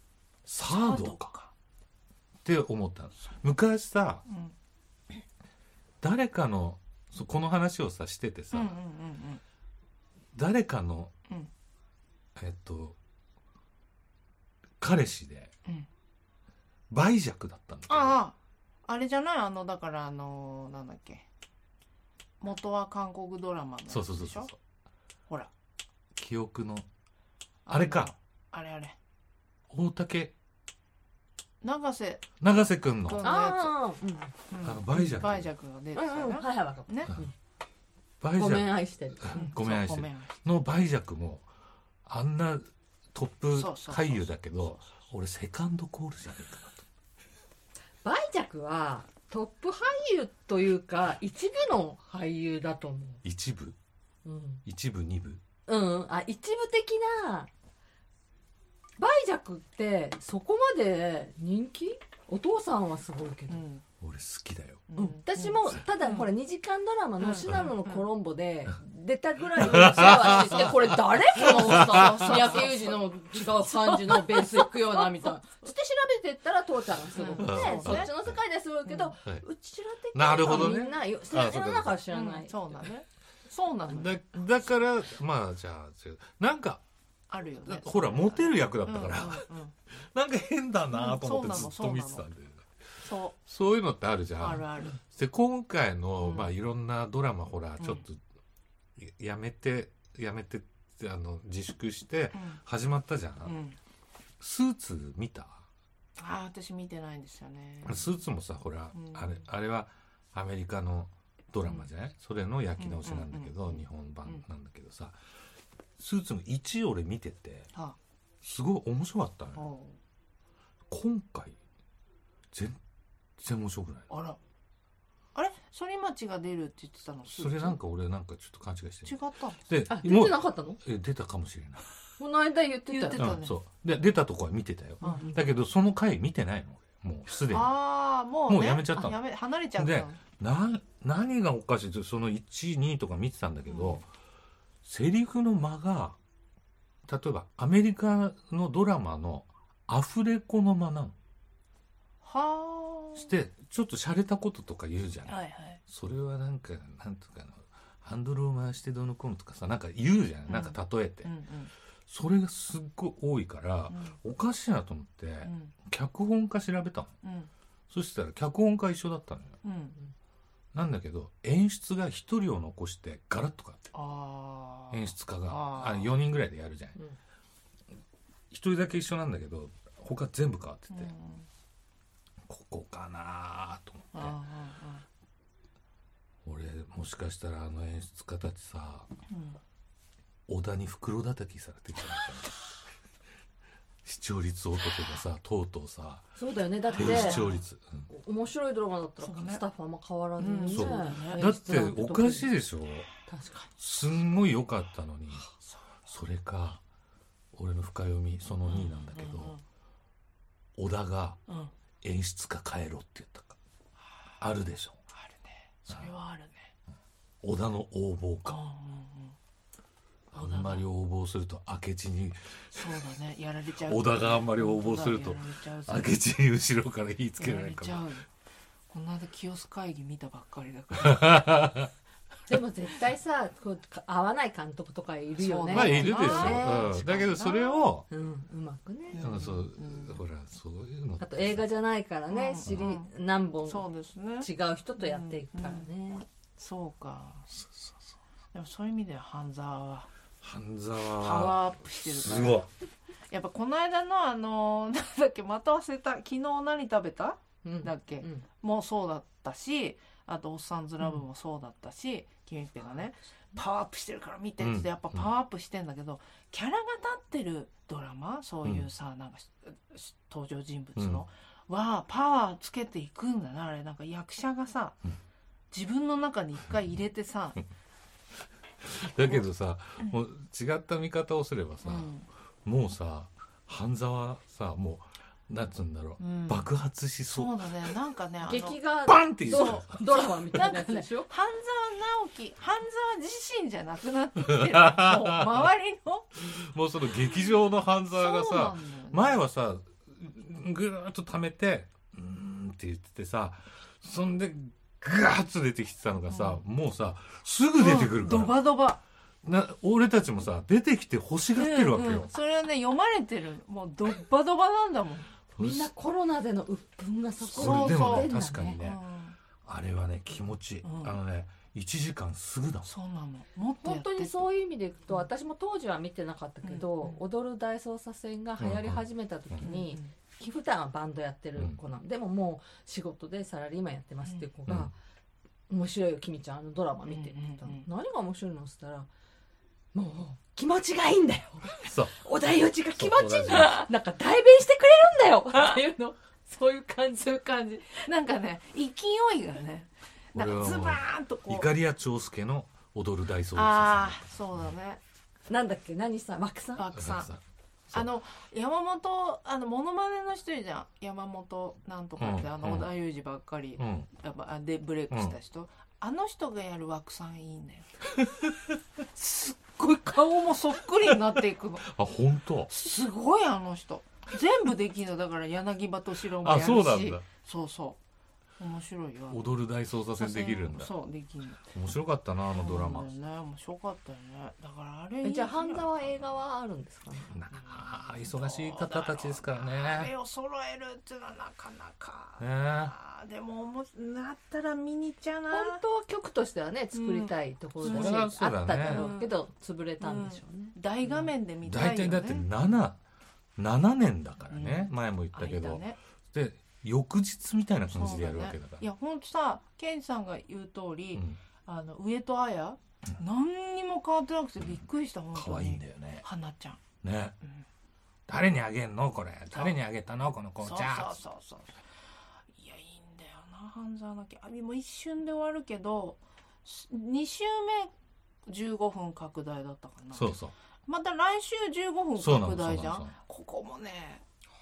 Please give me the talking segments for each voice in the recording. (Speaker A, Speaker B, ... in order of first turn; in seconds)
Speaker A: 0.5-1.3, 2.4-4.2, 6.0-8.8, 10.3-11.1, 12.3-13.0, 14.8-15.5, 16.9-18.2, 23.9-24.6, 26.1-26.9, 27.7-28.1, 29.7-30.3, 32.4-33.2, 34.6-35.5, 38.2-41.5, 42.0-46.8, 53.2-53.8, 54.6-55.4, 64.0-64.9, 69.6-72.7, 77.4-78.4, 80.1-82.0, 83.9-86.8, 87.6-98.2, 99.0-103.6, 104.4-105.7, 107.8-115.2, 116.0-117.7, 118.4-119.7, 120.9-121.6, 122.5-122.8, 123.4-124.1, 127.3-131.9, 133.1-137.8, 138.5-139.2, 139.7-144.1, 144.8-146.2, 147.1-151.2, 153.1-161.3, 162.1-167.1, 167.9-169.6, 170.7-173.9, 174.9-177.0, 178.5-181.1, 182.5-184.3, 186.4-189.1, 190.5-192.7, 194.0-196.3, 196.9-198.1, 200.7-203.1, 203.8-205.5, 206.1-206.8, 207.5-209.5, 210.8-211.4, 212.0-213.6, 214.4-215.0, 217.4-218.6, 220.3-223.0, 223.8-228.1, 231.0-231.9, 235.7-238.1, 239.2-241.7, 242.6-242.9, 247.5-248.2, 250.4-252.7, 264.6-265.3, 271.0-271.2, 278.8-282.1, 282.6-287.9, 289.0-290.0, 294.4-295.7, 296.4-308.6, 309.4-312.3, 315.6-315.9, 317.5-319.0, 319.6-322.9, 328.6-329.7, 334.7-334.9, 341.8-342.2, 343.0-343.8, 350.4-354.3, 356.9-358.0, 362.2-362.9, 363.8-364.1, 365.1-365.4, 368.2-368.7, 371.8-372.7, 376.4-377.2, 379.3-380.9, 381.6-383.1, 387.3-390.1, 392.4-392.9, 397.8-399.1, 401.6-403.0, 403.6-408.9, 411.1-411.4, 415.3-416.2, 417.0-417.4, 418.3-421.2, 430.1-430.5, 432.2-433.1
Speaker B: 0.6-1.5, 4.2-4.5, 8.5-9.4, 17.9-21.3, 22.4-24.5, 27.6-29.0, 31.6-32.4, 33.0-33.8, 34.5-37.2, 39.3-40.3, 43.5-44.9, 63.5-63.8, 64.9-66.3, 67.2-68.0, 70.0-75.4, 77.1-78.1, 78.8-79.1, 80.4-80.9, 82.1-84.2, 87.3-89.7, 90.9-92.2, 93.0-93.3, 94.4-95.0, 96.2-96.5, 97.8-98.0, 102.3-102.6, 103.4-103.8, 106.2-108.1, 108.9-109.4, 111.6-111.9, 112.8-114.4, 119.5-120.0, 124.1-124.4, 125.3-127.8, 129.0-129.6, 132.9-133.6, 135.0-135.3, 137.4-140.2, 143.7-144.0, 152.2-153.3, 155.2-155.8, 160.5-161.7, 163.9-164.2, 165.4-165.7, 167.2-167.5, 169.6-170.0, 173.9-176.1, 180.9-181.5, 184.1-185.0, 189.3-189.6, 196.9-197.6, 199.2-199.6, 200.4-201.4, 205.6-205.8, 208.7-209.6, 211.5-211.7, 215.1-216.7, 218.4-219.4, 220.3-220.8, 222.7-226.2, 227.4-228.3, 228.9-231.6, 235.4-237.9, 239.1-240.2, 242.3-243.1, 243.7-245.9, 246.6-247.5, 248.5-250.1, 251.2-252.7, 253.3-275.0, 275.7-277.6, 281.8-282.3, 286.2-286.7, 287.3-288.9, 289.5-296.5, 298.1-299.4, 306.3-306.6, 307.8-309.0, 311.5-315.3, 317.4-319.4, 320.8-321.2, 322.9-324.5, 326.6-327.2, 329.6-330.1, 337.1-337.9, 347.9-351.7, 353.5-355.0, 356.8-357.3, 357.9-368.0, 369.1-371.9, 372.7-378.0, 378.6-379.5, 380.2-381.9, 382.5-386.2, 387.6-395.8, 396.9-399.4, 400.0-402.5, 404.5-406.0, 407.9-416.8, 419.5-419.8, 420.6-421.8, 422.5-427.9, 428.4-430.4, 430.9-434.2
Speaker C: 33.2-34.3, 35.9-37.3, 38.4-39.5, 48.0-53.2, 54.2-54.6, 55.7-57.5, 59.0-63.6, 65.0-82.7, 129.9-130.8, 132.2-133.3, 135.0-135.4, 196.4-197.4, 198.1-202.5, 203.3-203.7, 232.5-237.1, 238.1-239.3, 241.2-243.9, 244.4-246.2, 257.6-258.4, 288.4-291.3, 315.6-318.8, 323.8-334.9, 335.7-339.1, 339.9-348.1, 355.5-356.9, 385.2-387.4, 395.5-401.3